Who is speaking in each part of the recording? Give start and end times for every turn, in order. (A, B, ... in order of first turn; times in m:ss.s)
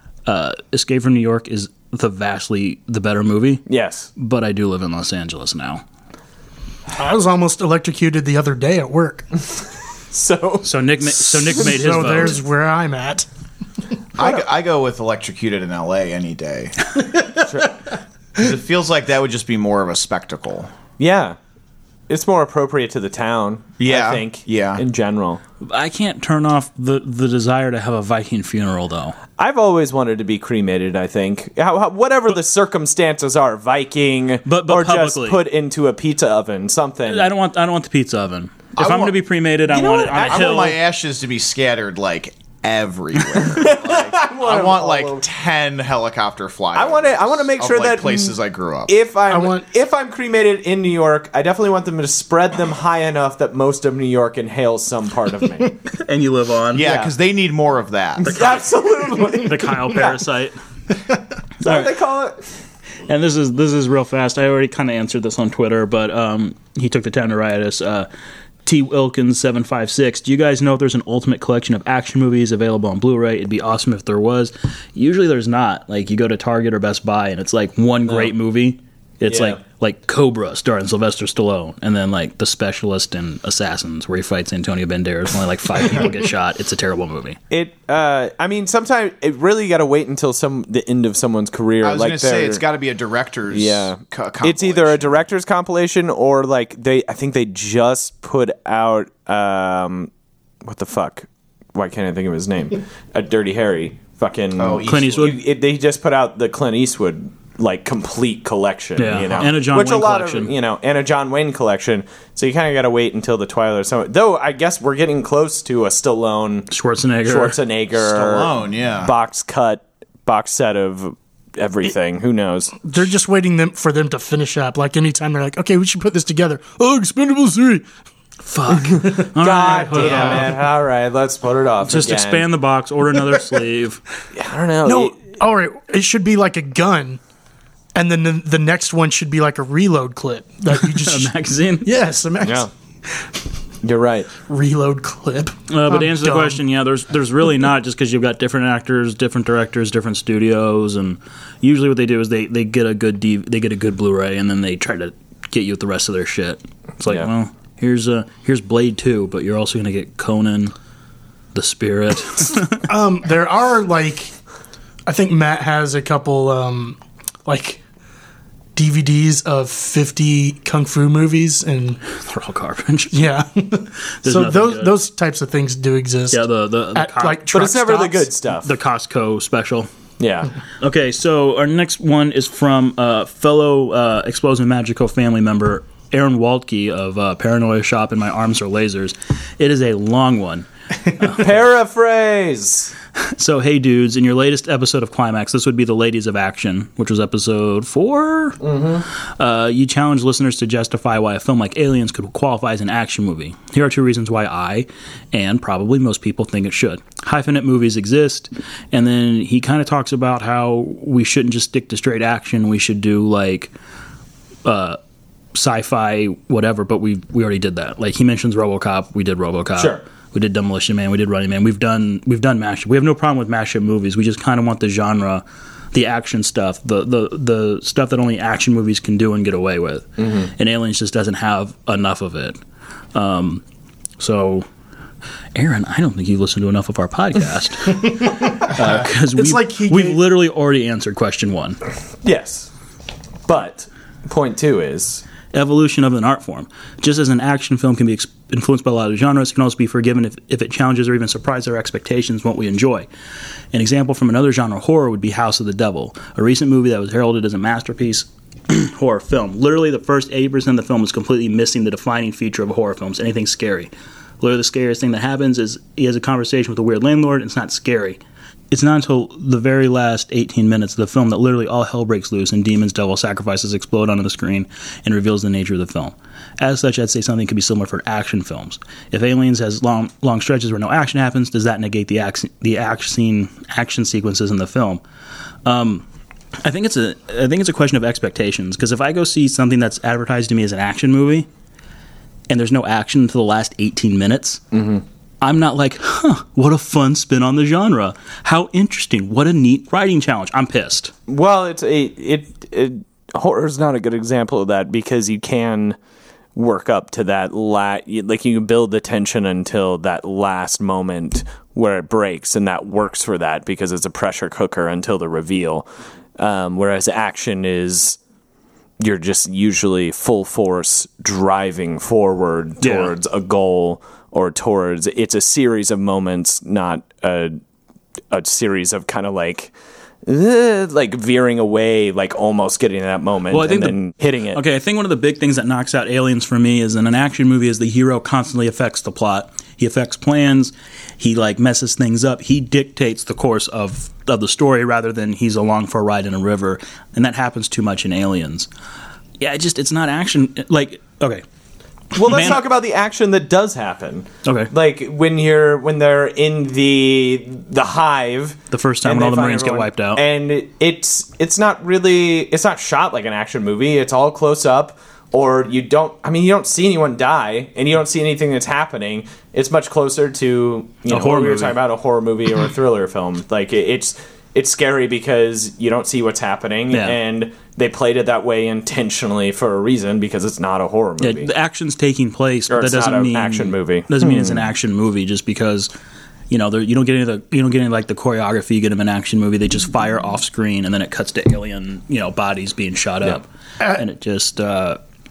0:00.2-0:03.6 A
0:03.7-0:04.1 B
0:04.2-0:05.8 A
0:06.9-0:09.3 C
0:10.1-0:10.7 B
0:10.6-0:12.4 A
0:11.5-0:13.2 C
0:14.2-0:16.8 D
0:14.2-0:14.4 B
0:17.1-0:17.4 C
0:18.4-0:20.7 D
0:21.0-0:21.4 B
0:22.1-0:25.4 B
0:23.8-0:24.8 D
0:25.6-0:29.2 A
0:29.4-0:37.3 B
0:34.4-0:35.4 A
0:37.1-0:40.7 A
0:38.8-0:39.2 D
0:39.7-0:40.8 B
0:40.3-0:48.9 D
0:43.3-0:45.2 B
0:46.7-0:55.8 B
0:49.3-0:49.6 C
0:55.9-0:56.9 A
0:56.7-0:58.4 D
0:56.8-0:57.1 B
0:58.2-1:00.1 B
0:58.3-0:58.6 A
0:59.3-1:00.6 A
1:01.6-1:02.4 B
1:01.6-1:01.9 A
1:03.0-1:08.1 A
1:08.6-1:27.4 A
1:18.1-1:18.3 B
1:19.3-1:19.6 B
1:27.5-1:32.6 B
1:31.8-1:35.3 D
1:33.5-1:40.1 B
1:40.6-1:56.7 B
1:44.6-1:45.3 D
1:44.8-1:45.4 A
1:49.0-1:50.5 A
1:56.7-1:57.6 A
1:57.2-2:02.8 B
1:58.0-1:59.1 D
2:02.8-2:07.9 C
2:08.4-2:10.6 A
2:08.8-2:12.5 B
2:10.0-2:10.4 C
2:11.8-2:14.0 A
2:14.3-2:15.1 B
2:14.8-2:17.2 C
2:17.9-2:21.3 C
2:20.8-2:21.9 A
2:21.8-2:22.7 C
2:22.4-2:22.7 B
2:23.8-2:24.3 B
2:24.5-2:26.6 C
2:25.7-2:40.7 A
2:41.5-2:42.8 A
2:42.9-2:44.3 C
2:45.1-2:47.8 C
2:48.7-2:52.0 C
2:52.2-2:53.4 A
2:53.1-2:56.4 C
2:54.2-2:54.9 A
2:56.3-2:57.4 A
2:56.9-2:58.3 C
2:57.5-2:58.7 B
2:58.6-2:59.9 A
3:00.2-3:00.5 B
3:00.8-3:11.5 A
3:11.3-3:12.9 B
3:13.2-3:18.6 A
3:18.6-3:19.0 B
3:19.4-3:33.7 A
3:34.6-3:35.0 A
3:35.5-3:52.6 A
3:39.8-3:40.0 B
3:50.2-3:50.5 B
3:53.1-3:53.6 A
3:54.2-3:54.7 A
3:55.5-4:01.8 A
3:58.2-3:58.7 C
3:59.3-4:00.2 C
4:02.2-4:02.7 B
4:03.5-4:05.2 B
4:05.5-4:13.1 A
4:13.7-4:45.0 A
4:45.6-4:46.0 A
4:46.6-4:51.5 A
4:52.5-4:54.6 A
4:54.7-4:55.0 B
4:55.4-5:01.1 A
5:01.3-5:06.0 B
5:06.6-5:15.9 B
5:16.4-5:18.2 B
5:19.0-5:27.6 B
5:22.8-5:23.1 A
5:28.3-5:29.7 B
5:30.2-5:34.6 B
5:33.5-5:34.0 A
5:34.5-5:48.7 A
5:49.4-5:51.4 A
5:52.1-6:21.5 B
5:52.2-5:52.6 A
5:54.4-5:54.7 A
5:58.7-6:00.2 A
6:11.1-6:11.8 A
6:16.9-6:17.2 A
6:21.2-6:25.9 A
6:22.7-6:24.7 B
6:26.5-6:35.0 A
6:33.8-6:34.0 C